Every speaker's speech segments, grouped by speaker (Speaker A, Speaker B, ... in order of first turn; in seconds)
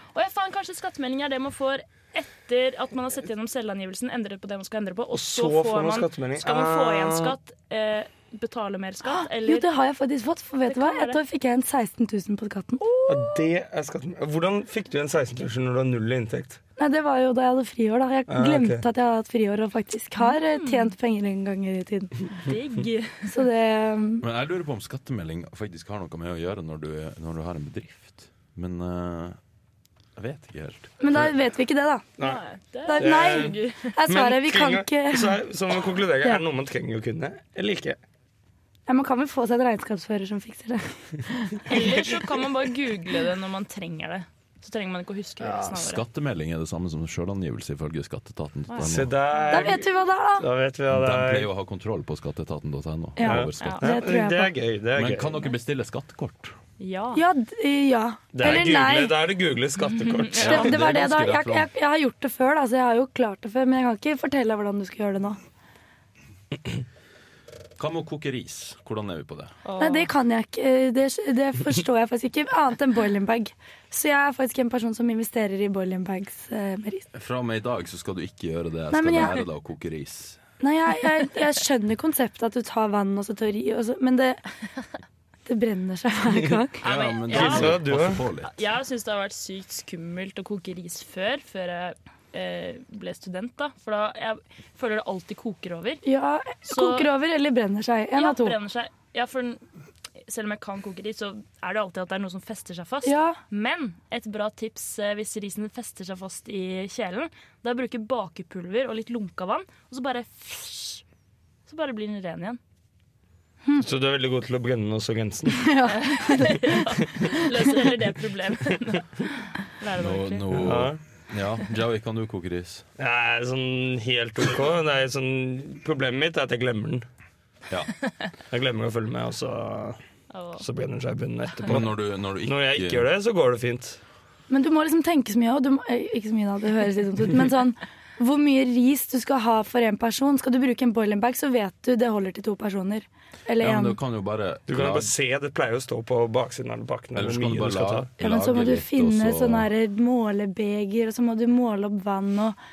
Speaker A: 0.1-9.7, 10.7-11.2, 20.2-20.9, 22.4-23.3, 32.2-33.9, 41.7-46.0, 48.7-49.5, 53.6-53.9, 56.8-57.2, 69.6-70.1, 86.8-87.8, 88.4-96.0, 96.6-97.1, 98.2-99.6, 100.2-111.0, 111.7-112.6, 116.0-120.4, 130.3-130.6
Speaker B: 5.1-7.3, 13.1-16.6, 18.3-18.8, 33.0-33.5, 34.1-38.0, 45.4-45.8, 48.8-49.8, 50.4-51.5, 53.2-55.4, 58.3-60.8, 87.3-88.2, 113.8-115.7, 120.5-121.0, 123.0-127.0, 128.5-130.0, 130.6-134.0, 144.7-148.1
Speaker C: 9.1-13.3, 16.8-22.1, 23.3-24.2, 31.0-32.1, 32.9-35.4, 38.9-41.6, 49.5-50.5, 53.2-54.5, 57.1-59.2, 60.4-65.4, 69.8-77.1, 78.9-79.4, 80.6-84.4, 85.5-86.8, 96.0-98.6, 103.0-103.4, 115.6-116.8, 134.5-144.0, 148.2-152.6
Speaker D: 24.2-29.4, 30.2-31.3, 45.8-49.1, 50.9-53.8, 54.9-56.5, 60.4-61.7, 67.8-69.5, 77.1-80.4, 86.8-88.5, 120.0-122.8, 131.7-133.1, 143.6-145.1, 147.1-149.7